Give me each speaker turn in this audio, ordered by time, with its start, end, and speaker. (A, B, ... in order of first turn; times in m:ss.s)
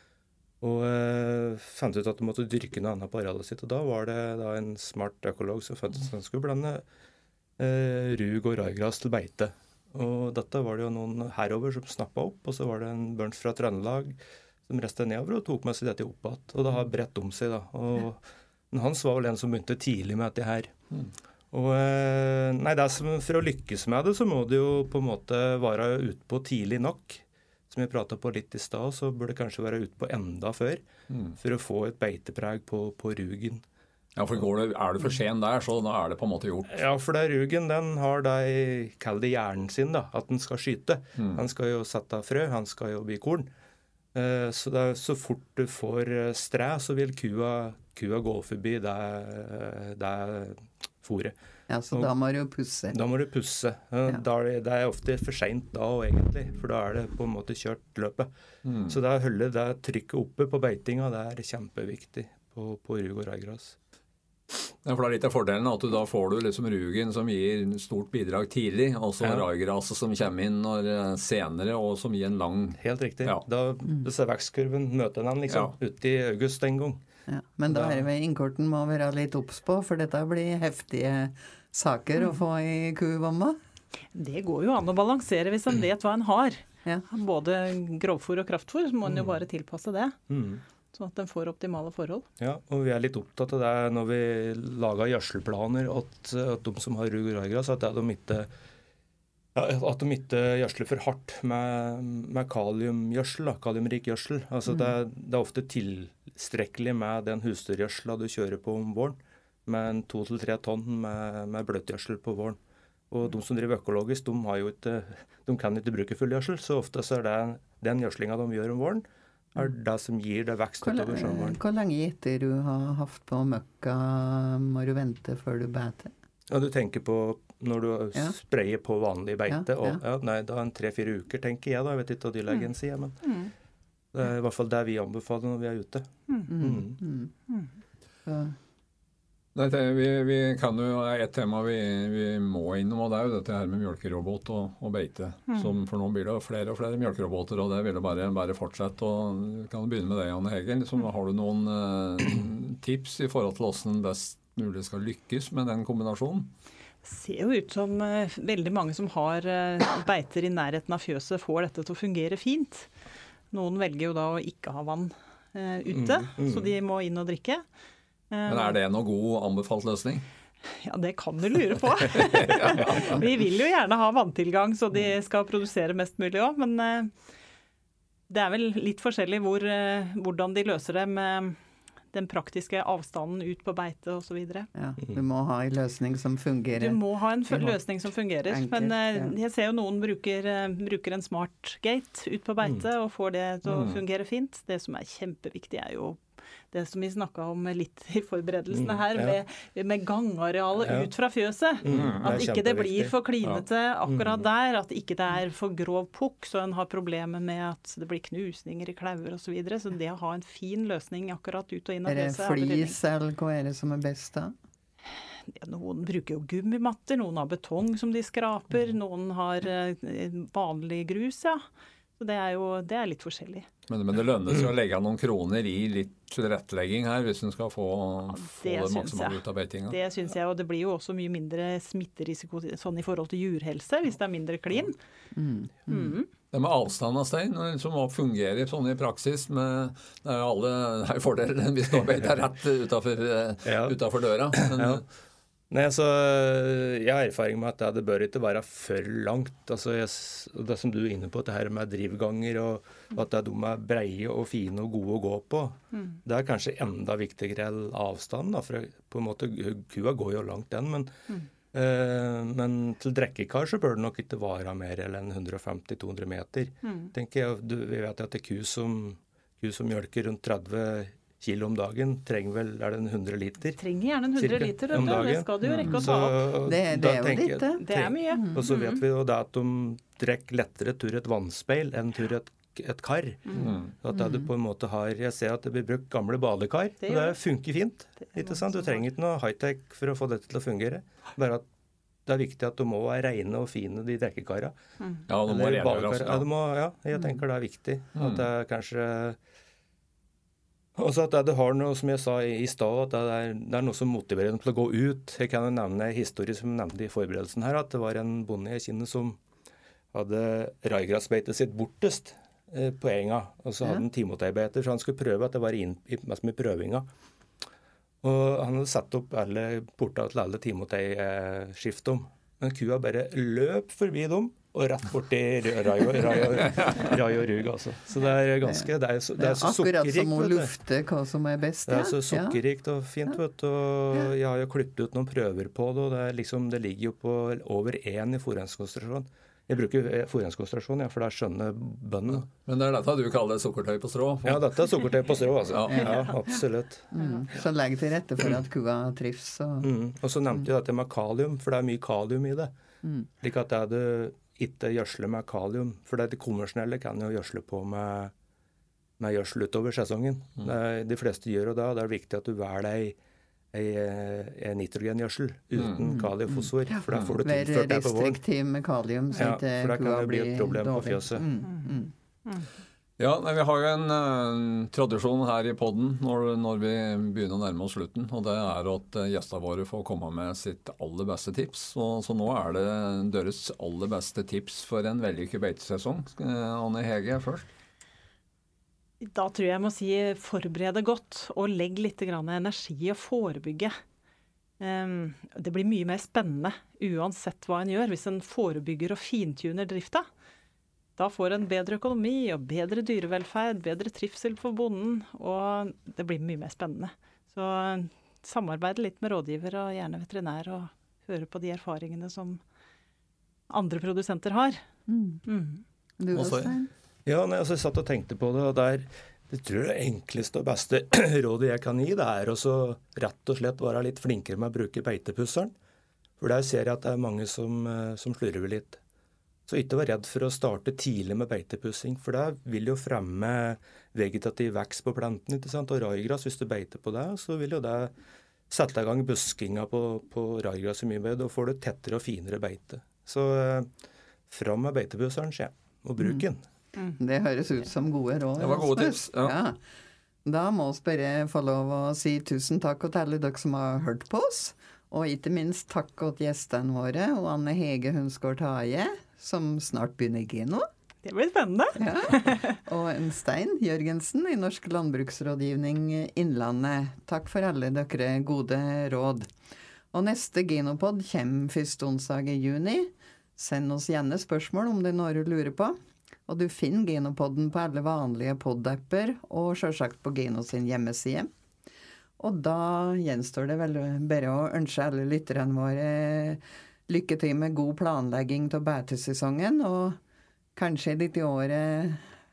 0:00.6-0:06.8 A
0:07.6-0:20.7 A
0:21.5-0:30.8 A
0:31.1-0:31.4 B
0:31.4-0:33.6 A
0:34.2-0:36.8 B
0:36.7-0:43.5 A
0:41.2-0:41.4 B
0:44.1-0:51.3 A
0:51.7-0:53.0 C
0:52.9-0:58.3 A
0:58.6-0:59.0 B
0:58.9-1:03.8 A
1:04.8-1:13.4 B
1:09.2-1:09.5 A
1:12.8-1:17.0 A
1:15.5-1:15.8 B
1:17.3-1:23.6 C
1:17.7-1:18.0 A
1:24.1-1:30.2 D
1:30.3-1:30.6 A
1:30.9-1:32.2 D
1:32.4-1:38.5 A
1:39.5-1:52.6 A
1:53.1-2:01.6 A
2:00.8-2:06.1 C
2:06.5-2:13.2 A
2:09.5-2:10.0 C
2:13.2-2:13.5 D
2:14.1-2:17.0 A
2:16.5-2:17.3 C
2:18.2-2:18.5 C
2:19.5-2:36.5 B
2:37.0-2:42.9 D
2:43.5-2:47.6 D
2:45.9-2:46.7 A
2:48.3-2:48.8 D
2:48.5-2:50.2 B
2:50.8-2:57.1 D
2:52.3-2:53.2 B
2:58.3-3:01.6 D
3:02.1-3:04.7 D
3:04.7-3:07.8 C
3:06.7-3:33.0 D
3:08.5-3:09.3 C
3:13.6-3:14.0 B
3:18.7-3:19.4 A
3:20.8-3:21.1 A
3:21.8-3:23.1 A
3:21.9-3:22.5 B
3:24.1-3:24.4 A
3:32.0-3:34.5 C
3:35.5-3:41.6 D
3:42.2-3:43.7 D
3:43.9-3:50.0 B
3:48.3-3:55.0 D
3:55.3-3:56.1 C
3:55.9-3:56.3 D
3:56.5-4:05.0 B
4:03.6-4:04.0 A
4:04.5-4:05.0 A
4:05.7-4:21.1 A
4:21.7-4:33.8 A
4:26.8-4:27.1 D
4:33.8-4:36.4 D
4:34.4-4:51.7 A
4:36.6-4:38.6 C
4:37.8-4:39.0 D
4:43.6-4:43.9 B
4:44.1-4:44.5 C
4:47.0-4:47.4 D
4:48.2-4:49.0 D
4:52.2-4:54.7 A
4:55.3-4:56.5 B
4:55.4-4:59.4 A
4:58.2-4:58.4 B
5:01.0-5:09.4 A
5:10.1-5:17.1 A
5:18.2-5:30.7 A
5:28.6-5:32.6 C
5:31.8-5:42.5 A
5:42.3-5:44.6 B
5:44.4-5:47.1 A
5:45.7-5:46.2 B
5:45.9-5:46.6 C
5:47.1-5:49.9 C
5:49.8-5:52.7 A
5:53.4-5:58.3 A
5:59.2-6:03.2 A
6:03.7-6:08.4 A
6:06.0-6:12.1 C
6:09.3-6:11.5 A
6:13.2-6:27.7 B
6:29.2-6:33.9 D
6:34.8-6:40.3 D
6:41.2-6:52.6 D
6:53.7-6:54.8 D
6:55.1-6:55.4 C
6:55.4-6:55.8 D
6:56.2-6:56.9 C
6:56.3-6:56.7 B
6:57.2-7:05.7 A
7:06.4-7:09.0 A
7:09.7-7:18.1 A
7:18.7-7:23.9 A
7:24.5-7:26.6 A
7:26.2-7:26.4 C
7:27.2-7:29.8 C
7:28.6-7:29.6 B
7:30.4-7:40.8 C
7:41.2-7:42.8 D
7:42.0-7:49.5 C
7:50.1-7:56.0 C
7:56.5-8:01.5 C
8:02.4-8:10.2 C
8:10.7-8:12.3 C